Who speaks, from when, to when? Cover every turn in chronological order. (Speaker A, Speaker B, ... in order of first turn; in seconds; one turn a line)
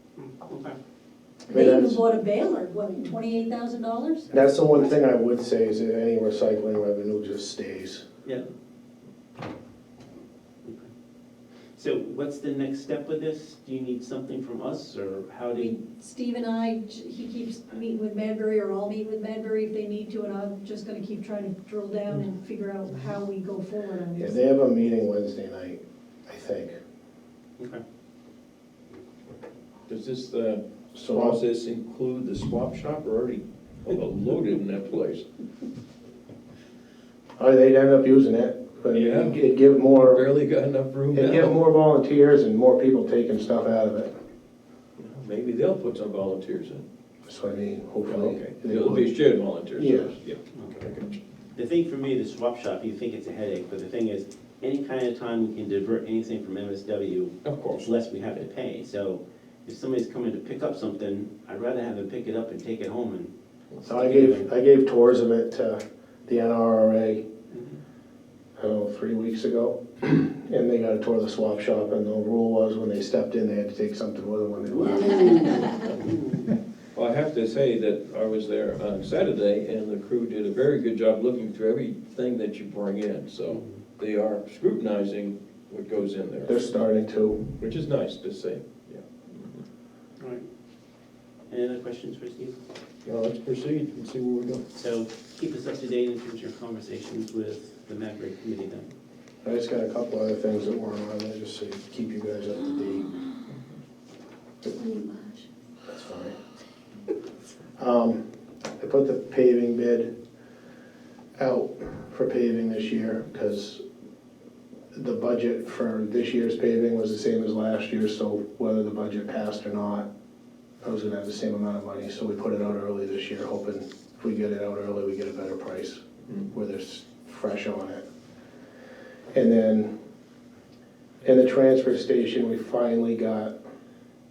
Speaker A: 0.2-0.8
Speaker B: 1.5-2.0
Speaker C: 1.5-5.0
Speaker B: 4.3-8.1
Speaker A: 11.8-15.7
Speaker C: 15.6-24.4
Speaker B: 24.2-26.8
Speaker D: 29.9-35.3
Speaker B: 30.9-31.4
Speaker B: 37.4-40.3
Speaker D: 38.9-41.6
Speaker B: 41.1-44.1
Speaker D: 45.0-46.9
Speaker B: 47.3-49.1
Speaker D: 48.0-51.2
Speaker B: 49.8-50.1
Speaker A: 51.5-64.5
Speaker D: 57.4-57.9
Speaker B: 63.9-67.2
Speaker A: 67.5-67.8
Speaker B: 68.6-75.7
Speaker A: 74.6-76.5
Speaker D: 76.9-86.7
Speaker A: 83.5-83.7
Speaker B: 86.5-87.5
Speaker D: 87.6-89.6
Speaker A: 90.2-90.4
Speaker A: 91.5-92.6
Speaker D: 93.0-94.6
Speaker A: 94.8-98.9
Speaker B: 99.4-103.1
Speaker C: 104.8-105.5
Speaker B: 105.9-106.4
Speaker B: 107.8-108.2
Speaker B: 108.8-110.1
Speaker B: 111.4-113.8
Speaker B: 114.9-120.1
Speaker B: 120.8-128.1
Speaker B: 129.3-129.9
Speaker B: 131.2-133.5